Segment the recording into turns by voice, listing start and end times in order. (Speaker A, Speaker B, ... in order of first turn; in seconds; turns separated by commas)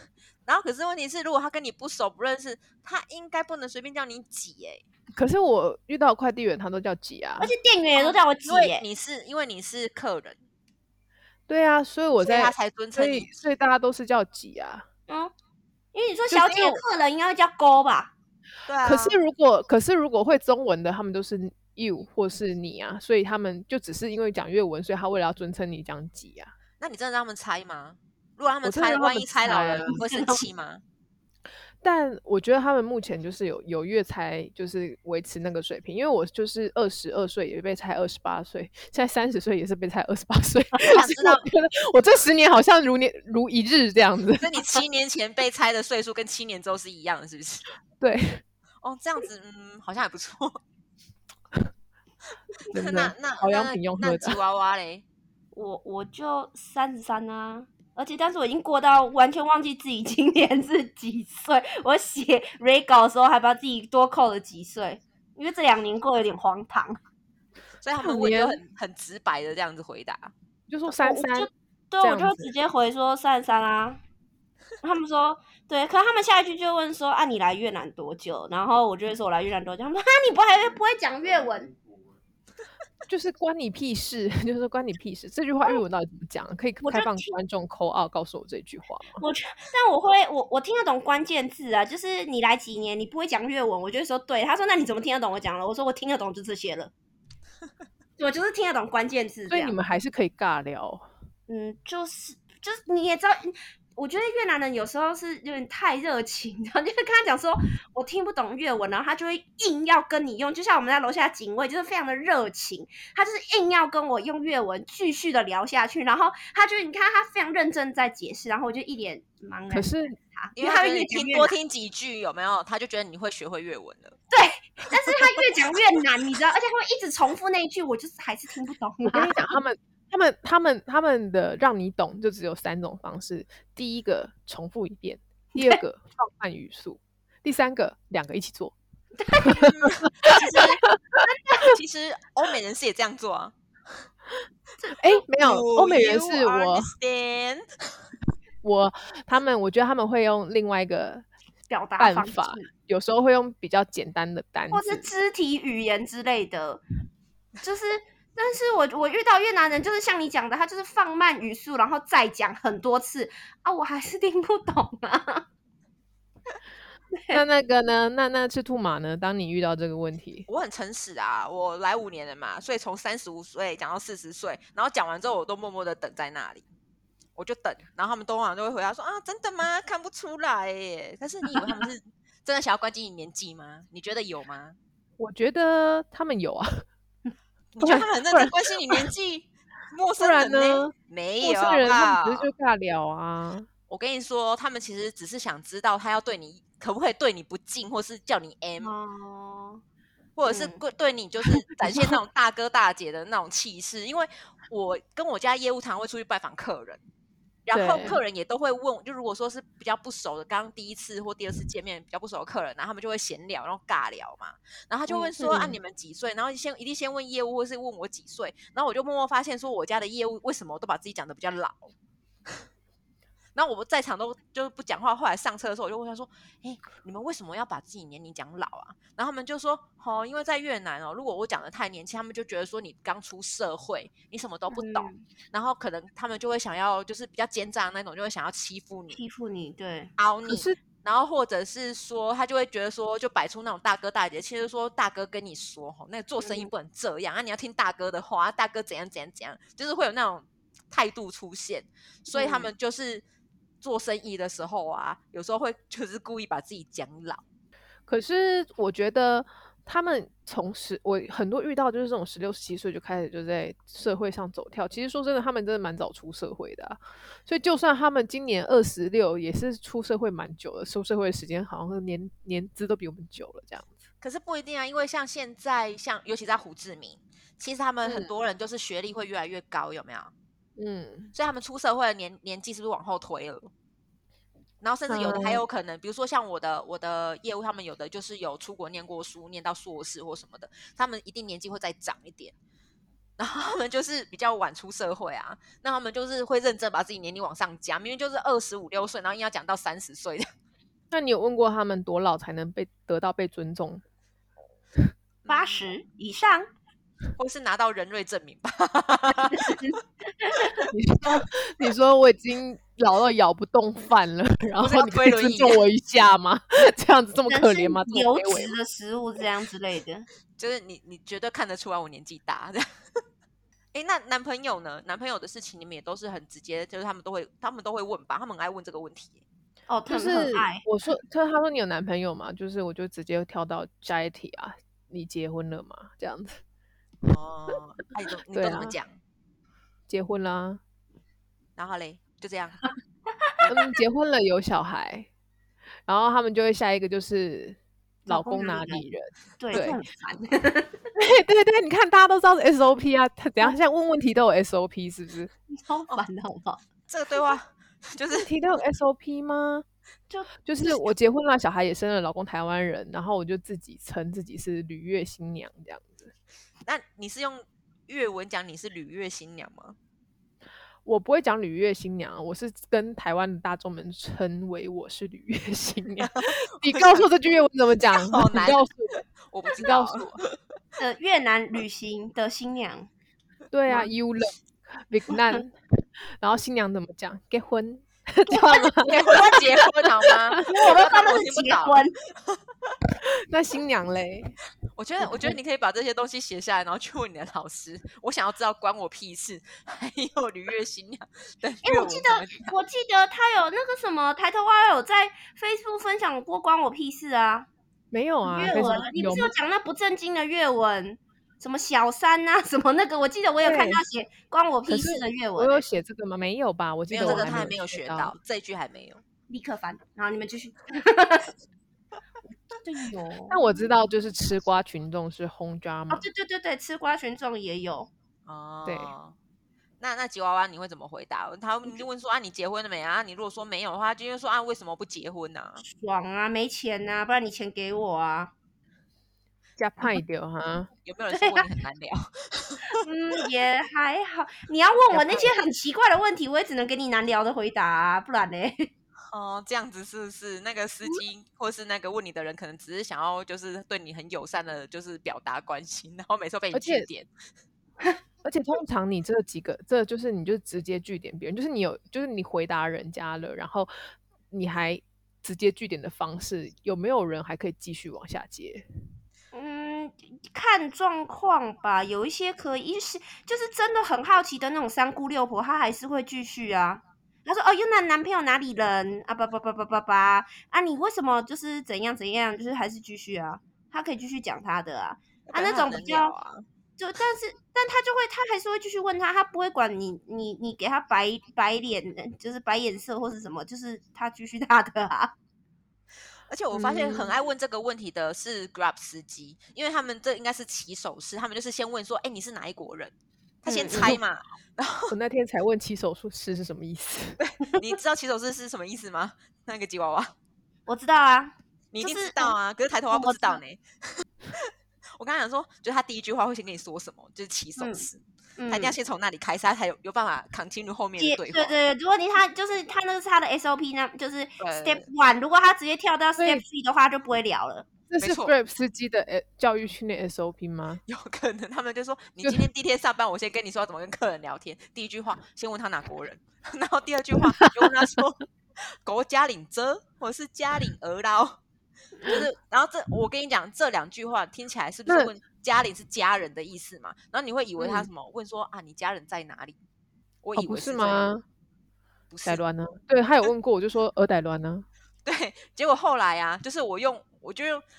Speaker A: 0.5-4.8, Speaker B: 5.2-7.5, Speaker C: 7.4-8.8, Speaker A: 8.0-10.4, Speaker B: 11.5-14.8, Speaker A: 12.2-13.3, Speaker C: 15.1-15.3, Speaker C: 15.9-18.1, Speaker B: 16.3-16.8, Speaker A: 18.7-19.2, Speaker B: 18.8-26.5, Speaker A: 26.8-30.8, Speaker B: 28.6-30.0, Speaker C: 29.9-30.4, Speaker B: 31.8-44.7, Speaker A: 40.8-41.5, Speaker A: 44.4-47.7, Speaker B: 48.0-48.4, Speaker A: 48.8-50.6, Speaker B: 52.7-54.4, Speaker A: 52.7-55.0, Speaker C: 55.5-67.0, Speaker A: 67.8-70.3, Speaker B: 68.0-68.6, Speaker B: 70.7-71.5, Speaker C: 70.9-74.0, Speaker B: 72.0-72.5, Speaker C: 74.8-81.7, Speaker B: 83.1-89.2, Speaker C: 86.8-87.3, Speaker C: 89.2-96.9, Speaker C: 98.2-99.8, Speaker B: 99.5-101.0, Speaker C: 101.5-121.5, Speaker B: 119.7-120.2, Speaker A: 120.6-124.2, Speaker C: 124.3-129.4, Speaker B: 129.1-138.8, Speaker C: 135.6-135.8, Speaker C: 139.2-139.6, Speaker B: 139.4-141.2, Speaker A: 139.5-140.8, Speaker C: 140.3-140.8, Speaker A: 141.6-143.5, Speaker B: 145.0-146.9, Speaker A: 145.4-147.7, Speaker B: 148.6-151.3, Speaker C: 151.7-152.7, Speaker B: 152.0-155.1, Speaker C: 154.7-156.8, Speaker C: 157.6-165.5, Speaker C: 167.1-167.4, Speaker B: 167.3-170.5, Speaker A: 170.5-176.7, Speaker A: 177.4-184.8, Speaker B: 185.2-186.9, Speaker A: 187.7-192.5, Speaker B: 187.8-189.1, Speaker B: 190.2-193.7, Speaker A: 193.9-198.9, Speaker C: 198.8-199.8, Speaker A: 200.4-207.0, Speaker C: 200.5-200.8, Speaker B: 201.9-202.2, Speaker A: 207.7-221.9, Speaker B: 207.7-208.2, Speaker B: 215.1-215.8, Speaker A: 223.6-239.2, Speaker C: 234.7-235.2, Speaker C: 239.1-240.1, Speaker A: 240.2-253.2, Speaker B: 240.5-240.8, Speaker C: 246.4-246.7, Speaker C: 252.3-252.7, Speaker A: 253.8-257.4, Speaker B: 258.1-274.0, Speaker A: 274.2-280.3, Speaker B: 278.1-278.3, Speaker B: 280.8-281.3, Speaker A: 281.3-283.7, Speaker A: 284.8-292.5, Speaker B: 285.1-285.6, Speaker A: 293.4-300.5, Speaker B: 301.1-304.0, Speaker A: 305.4-305.9, Speaker C: 305.5-306.7, Speaker A: 307.4-309.8, Speaker C: 309.3-310.9, Speaker B: 310.9-318.8, Speaker A: 314.8-315.8, Speaker C: 317.5-320.3, Speaker A: 320.6-322.9, Speaker A: 323.9-329.4, Speaker C: 329.9-330.9, Speaker B: 330.1-336.6, Speaker A: 337.2-339.2, Speaker B: 338.5-339.0, Speaker B: 340.1-340.8, Speaker A: 341.8-342.8, Speaker B: 343.7-345.3, Speaker B: 346.1-350.0, Speaker C: 348.3-349.1, Speaker C: 349.6-351.0, Speaker B: 351.2-355.5, Speaker C: 355.7-356.8, Speaker A: 357.1-358.5, Speaker B: 358.3-359.9, Speaker C: 360.3-361.0, Speaker B: 360.7-366.3, Speaker A: 366.9-370.0, Speaker B: 371.1-379.2, Speaker A: 376.2-377.3, Speaker A: 378.1-378.8, Speaker A: 379.5-380.6, Speaker B: 379.8-380.4, Speaker C: 381.0-383.1, Speaker B: 383.7-385.8, Speaker B: 386.4-389.3, Speaker C: 388.5-389.7, Speaker A: 389.1-392.6, Speaker C: 390.6-392.1, Speaker B: 393.5-394.6, Speaker A: 395.0-402.7, Speaker C: 401.8-407.7, Speaker B: 408.1-409.5, Speaker C: 408.4-415.9, Speaker B: 413.6-414.0, Speaker B: 414.9-418.4, Speaker A: 417.1-419.2, Speaker C: 417.2-417.6, Speaker C: 419.5-421.5, Speaker C: 422.8-423.8, Speaker B: 423.5-426.3, Speaker C: 426.1-428.1, Speaker A: 428.5-429.4, Speaker B: 428.9-429.1, Speaker A: 430.0-435.8, Speaker C: 435.8-438.5, Speaker B: 439.8-440.9, Speaker A: 441.0-443.0, Speaker C: 441.3-441.7, Speaker C: 442.9-448.9, Speaker B: 445.1-445.5, Speaker A: 449.3-457.3, Speaker B: 456.7-457.1, Speaker B: 458.4-463.9, Speaker B: 464.5-468.9, Speaker C: 469.5-486.3, Speaker A: 485.5-486.6, Speaker C: 487.0-495.3, Speaker A: 496.5-505.1, Speaker C: 496.8-497.3, Speaker C: 503.7-504.2, Speaker B: 505.1-507.4, Speaker A: 507.4-510.3, Speaker C: 510.9-512.5, Speaker A: 511.9-521.8, Speaker C: 513.1-513.6, Speaker C: 517.8-518.0, Speaker C: 518.6-518.9, Speaker C: 521.2-527.9, Speaker A: 524.6-525.1, Speaker B: 528.1-531.0, Speaker A: 528.2-528.5, Speaker A: 531.1-541.6, Speaker B: 537.6-538.0, Speaker A: 542.2-549.8, Speaker B: 547.8-548.1, Speaker A: 550.4-551.3, Speaker B: 550.6-551.4, Speaker A: 552.3-552.6, Speaker B: 552.5-554.9, Speaker A: 555.2-557.8